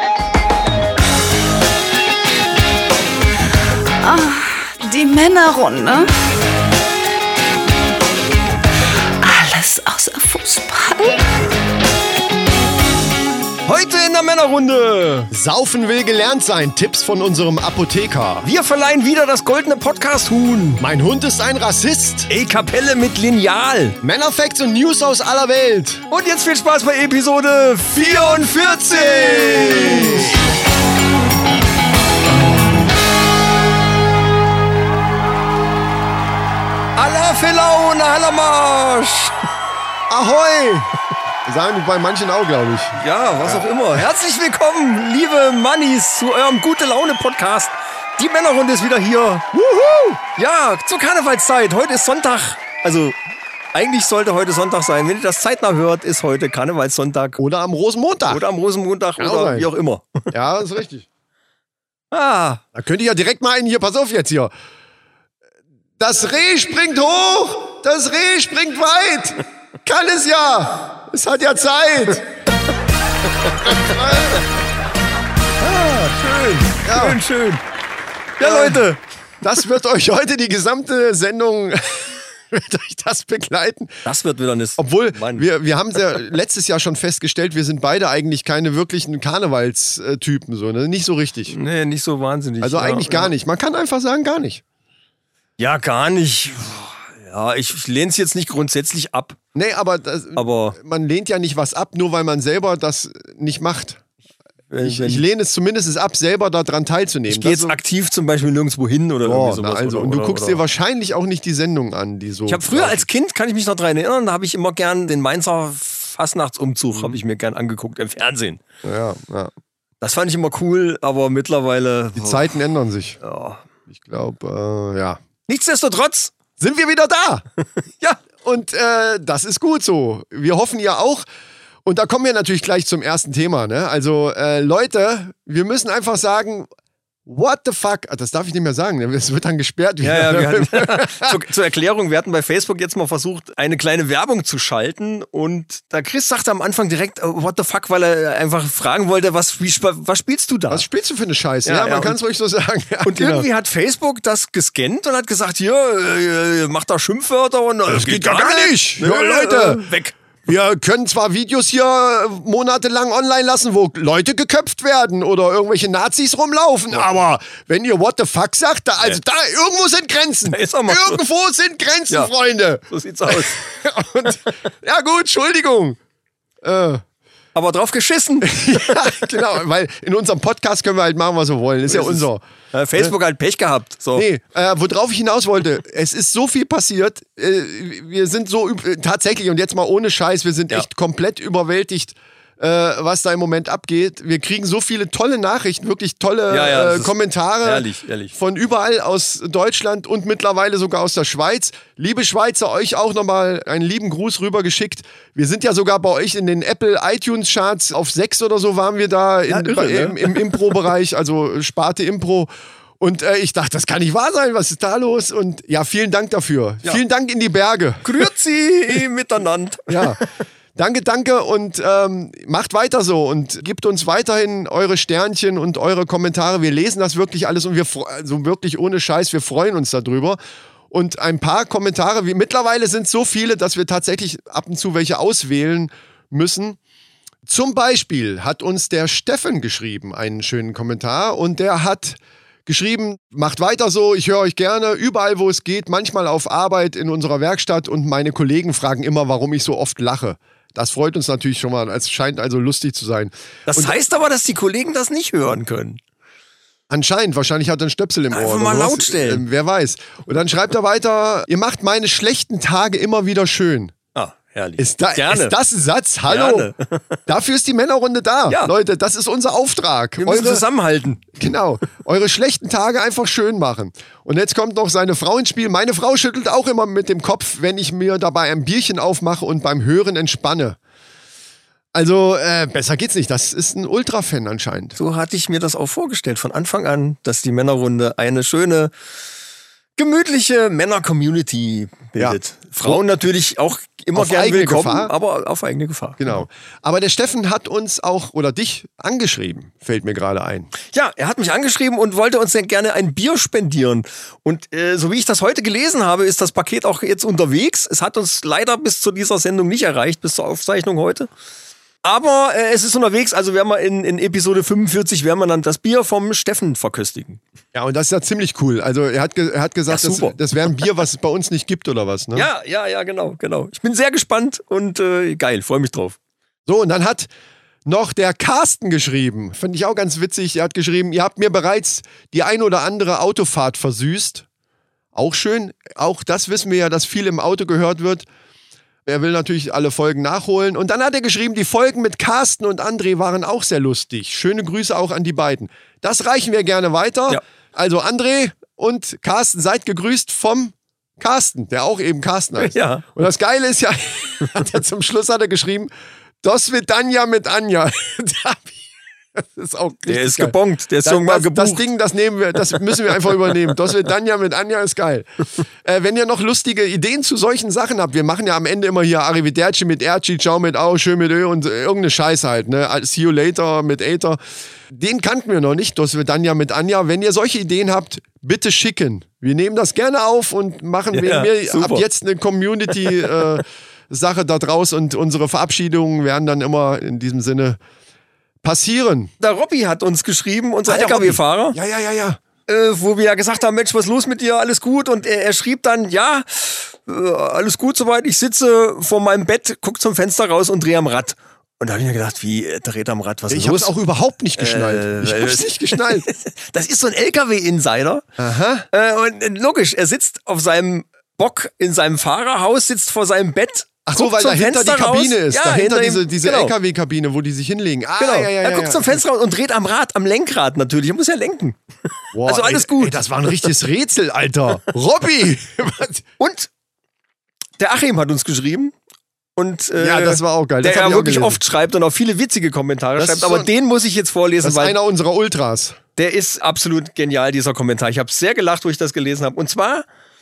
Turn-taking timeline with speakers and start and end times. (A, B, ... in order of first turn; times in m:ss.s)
0:04.0-0:06.1 A
0:09.2-0:11.2 A
0:13.7-0:15.3 B
0:15.3-0:18.5 C
0:18.4-0:20.8 B
0:20.8-0:22.3 C
0:22.3-0:24.0 B
0:24.0-0:26.0 C
0:26.1-0:30.4 B
0:29.4-0:30.3 C
0:37.0-0:39.4 B
0:40.1-0:40.9 C
0:41.5-0:44.0 C
0:43.0-0:49.5 B
0:49.5-0:50.2 C
0:50.4-0:53.2 B
0:53.7-0:57.4 B
0:57.4-0:58.4 C
0:58.3-1:00.3 B
0:59.2-0:59.7 C
1:00.3-1:01.1 C
1:02.1-1:02.6 B
1:02.7-1:04.5 C
1:06.0-1:12.3 C
1:13.6-1:14.5 C
1:15.6-1:17.6 B
1:16.8-1:17.2 C
1:18.4-1:19.0 B
1:18.4-1:18.9 C
1:19.4-1:23.9 C
1:24.0-1:25.5 B
1:24.8-1:31.6 C
1:31.5-1:33.3 B
1:32.6-1:34.6 C
1:35.6-1:39.4 B
1:39.5-1:44.0 C
1:40.4-1:40.8 B
1:44.7-1:45.2 B
1:44.8-1:47.8 C
1:47.3-1:50.6 B
1:49.2-1:53.1 C
1:52.5-1:58.6 B
1:58.8-1:59.5 C
2:00.0-2:02.6 B
2:02.2-2:03.2 C
2:03.2-2:03.6 B
2:03.9-2:05.2 C
2:05.5-2:06.3 B
2:06.6-2:07.4 C
2:07.8-2:08.2 B
2:08.4-2:11.2 C
2:11.8-2:16.7 C
2:17.3-2:21.4 C
2:20.0-2:30.9 B
2:30.7-2:33.5 C
2:31.6-2:32.2 B
2:33.0-2:40.2 B
2:37.9-2:39.9 C
2:40.5-2:56.0 C
2:50.5-2:51.2 B
2:52.9-2:53.6 B
2:56.6-2:57.0 C
2:57.6-2:59.3 B
2:58.4-3:02.4 C
3:01.9-3:04.3 B
3:04.2-3:38.2 C
3:16.5-3:18.3 B
3:29.5-3:30.7 B
3:38.0-3:40.2 B
3:39.9-3:40.2 C
3:40.8-3:50.4 C
3:50.9-3:56.8 C
3:57.5-4:14.0 C
4:13.7-4:16.0 B
4:16.9-4:23.9 C
4:18.3-4:19.4 B
4:24.2-4:25.5 B
4:24.8-4:26.7 C
4:26.3-4:27.2 B
4:27.3-4:30.6 C
4:30.2-4:31.3 B
4:31.4-4:40.8 C
4:41.9-4:45.0 C
4:45.0-4:48.9 B
4:50.0-4:56.5 B
4:52.2-4:53.0 C
4:54.1-4:55.1 C
4:56.2-5:00.7 C
5:00.9-5:11.3 B
5:12.0-5:17.4 B
5:17.7-5:22.5 C
5:19.9-5:20.8 B
5:22.3-5:26.2 B
5:26.7-5:27.3 C
5:27.9-5:34.5 C
5:35.2-5:38.3 C
5:39.1-5:55.9 C
5:52.6-5:53.1 B
5:56.4-5:58.8 C
5:59.4-6:05.3 C
6:00.1-6:01.9 B
6:02.8-6:03.5 B
6:05.8-6:27.8 C
6:21.1-6:22.1 B
6:28.6-6:29.3 C
6:29.4-6:31.8 B
6:30.9-6:32.4 C
6:32.7-6:43.9 B
6:43.5-6:46.3 C
6:44.6-6:48.2 B
6:48.4-6:48.9 C
6:48.9-6:56.7 B
6:54.1-6:59.2 C
6:58.2-7:01.8 B
7:02.3-7:06.2 C
7:02.4-7:03.2 B
7:06.4-7:06.7 B
7:07.8-7:08.9 B
7:09.6-7:15.0 B
7:10.0-7:11.6 C
7:13.2-7:13.7 C
7:14.6-7:16.0 C
7:16.2-7:20.1 B